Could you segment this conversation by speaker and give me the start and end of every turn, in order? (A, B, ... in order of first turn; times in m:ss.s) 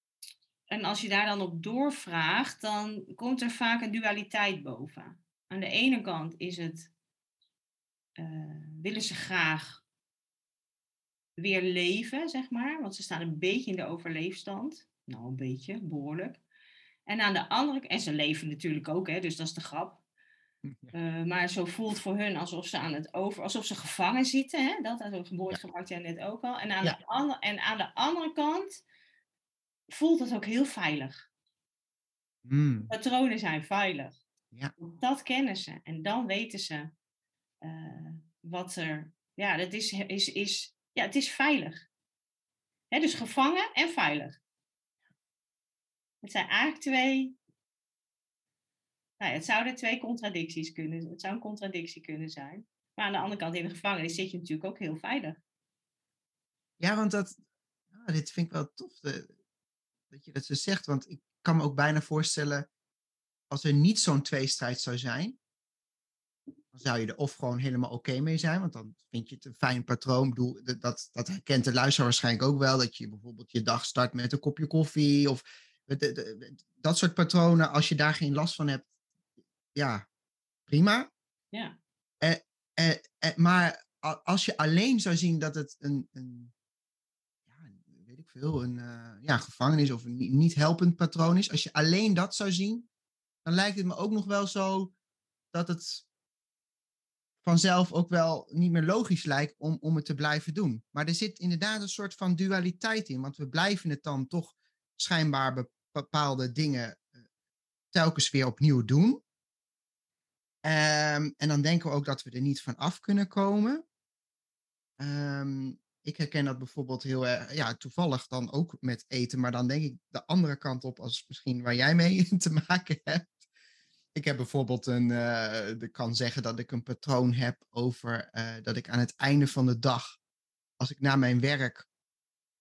0:00.7-0:06.9 A
0:08.2-0:09.8 A
0:11.4-0:16.4 A
0:17.1-0:20.0 A
0:20.6-0:20.9 B
0:20.9-0:28.8 A
0:29.9-0:31.3 A
0:32.4-0:32.9 B
0:32.9-0:34.2 A
0:34.8-0:36.9 A
0:37.6-0:41.8 A
0:42.9-0:44.4 A
0:46.2-0:47.4 A
0:49.2-0:55.4 A
0:56.8-0:57.4 B
0:57.9-0:59.3 B
1:00.1-1:02.7 B
1:03.5-1:05.4 B
1:06.7-1:18.9 B
1:19.8-1:20.0 B
1:20.7-1:21.1 B
1:22.2-1:26.5 B
1:27.5-1:32.9 B
1:33.4-1:34.9 B
1:35.5-1:36.1 B
1:37.4-1:47.1 B
1:47.9-1:49.2 B
1:50.6-1:53.8 B
1:55.0-2:03.3 B
2:04.2-2:10.2 B
2:10.8-2:11.9 B